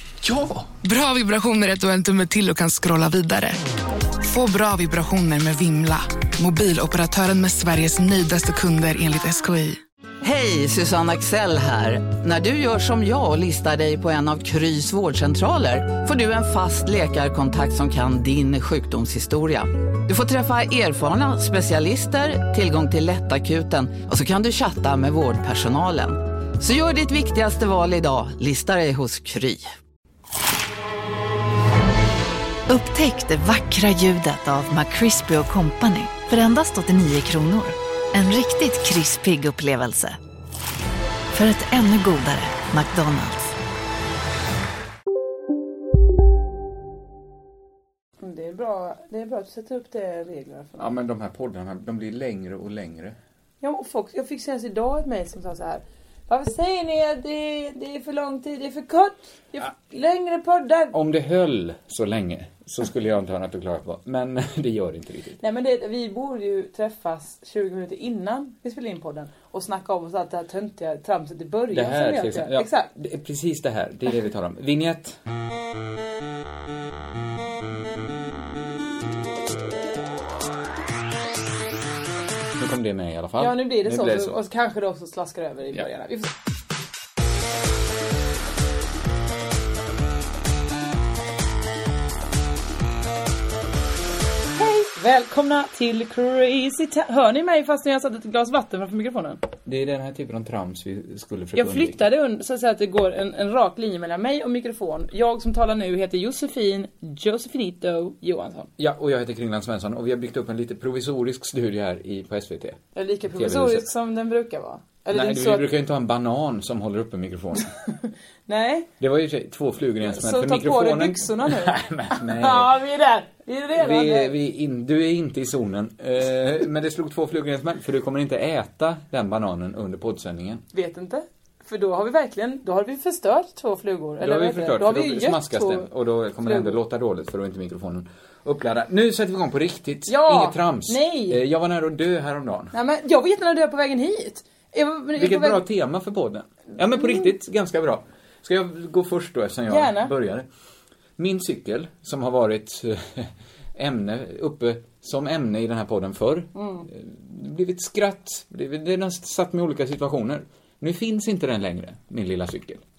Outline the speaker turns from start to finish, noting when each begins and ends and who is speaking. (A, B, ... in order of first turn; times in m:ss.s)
0:00.2-0:00.7 A
0:00.8-0:03.6 B
0:04.2-0:09.8 B
0:10.2-0:29.7 C
0:32.7-0:40.2 D
0:41.3-0:43.6 D
0:48.2-0:50.9 E
0:50.8-0:53.2 A
0:53.6-1:01.0 E
1:00.9-1:05.4 A
1:05.4-1:12.9 E
1:11.7-1:15.2 A
1:22.6-1:24.4 A
1:23.4-1:26.3 E
1:34.5-1:39.4 E
1:39.6-1:42.0 A
1:41.5-1:48.7 E
1:48.8-1:52.8 A
1:52.9-1:55.7 E
1:53.3-1:53.9 A
1:55.1-1:57.7 A
1:58.5-1:58.9 E
1:59.0-2:02.7 A
2:00.0-2:04.3 E
2:03.7-2:10.6 A
2:10.7-2:15.9 E
2:14.2-2:22.7 A
2:16.4-2:16.8 E
2:20.1-2:21.4 E
2:22.7-2:25.6 E
2:25.2-2:30.4 A
2:29.7-2:30.1 E
2:31.2-2:42.8 A
2:36.5-2:36.9 E